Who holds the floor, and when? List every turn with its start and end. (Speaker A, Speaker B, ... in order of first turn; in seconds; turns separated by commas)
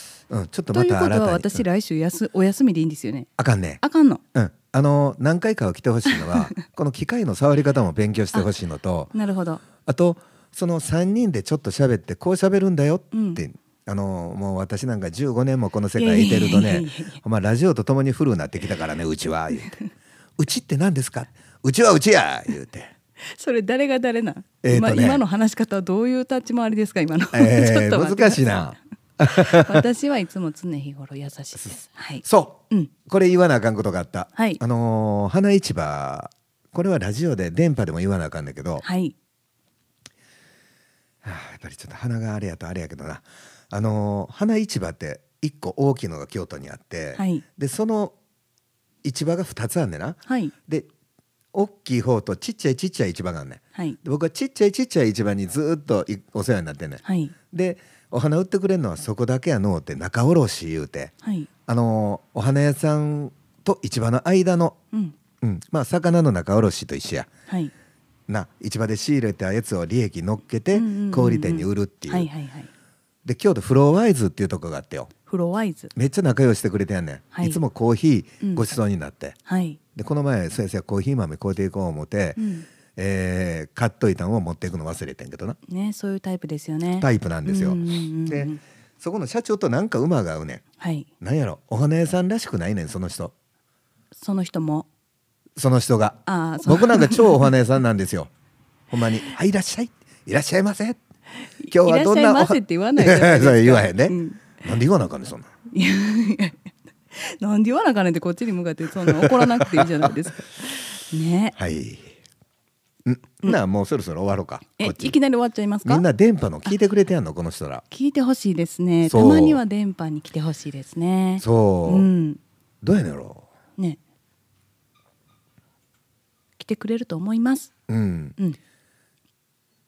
Speaker A: 0.3-1.7, Speaker B: 0.7-4.2, Speaker A: 3.4-3.8, Speaker A: 4.3-9.1, Speaker B: 9.1-9.6, Speaker A: 9.8-19.8, Speaker B: 13.1-13.4, Speaker B: 15.9-17.2, Speaker A: 20.4-22.9, Speaker B: 23.2-32.9, Speaker A: 24.6-25.2, Speaker A: 27.3-29.9, Speaker A: 32.2-38.9, Speaker B: 34.4-34.6, Speaker B: 38.8-39.1, Speaker A: 41.2-48.1, Speaker B: 47.2-47.4, Speaker A: 49.0-50.9, Speaker B: 50.3-50.5, Speaker A: 51.5-61.1, Speaker B: 57.0-57.4, Speaker B: 61.2-61.5, Speaker A: 61.7-64.8, Speaker A: 65.4-67.3, Speaker B: 67.5-67.7, Speaker A: 68.3-72.3, Speaker B: 70.7-72.7, Speaker A: 73.2-75.1, Speaker B: 75.3-75.9, Speaker A: 76.0-79.4, Speaker B: 77.3-77.6, Speaker B: 79.5-79.8, Speaker A: 80.0-82.4, Speaker B: 82.4-82.7, Speaker A: 83.0-85.6, Speaker B: 85.7-88.6, Speaker A: 87.0-90.6, Speaker B: 90.8-91.1, Speaker A: 91.2-93.3, Speaker B: 94.1-94.9, Speaker A: 95.6-98.3, Speaker B: 96.3-97.5, Speaker A: 98.9-101.0, Speaker B: 101.6-104.5, Speaker A: 101.7-105.5, Speaker B: 105.7-111.6, Speaker A: 109.0-110.1, Speaker A: 111.6-112.1, Speaker A: 113.0-115.2, Speaker B: 114.8-116.1, Speaker A: 115.8-117.8, Speaker B: 117.9-122.4, Speaker A: 119.0-119.6, Speaker A: 121.4-122.1, Speaker A: 122.8-123.5, Speaker B: 126.6-127.7, Speaker A: 127.9-128.4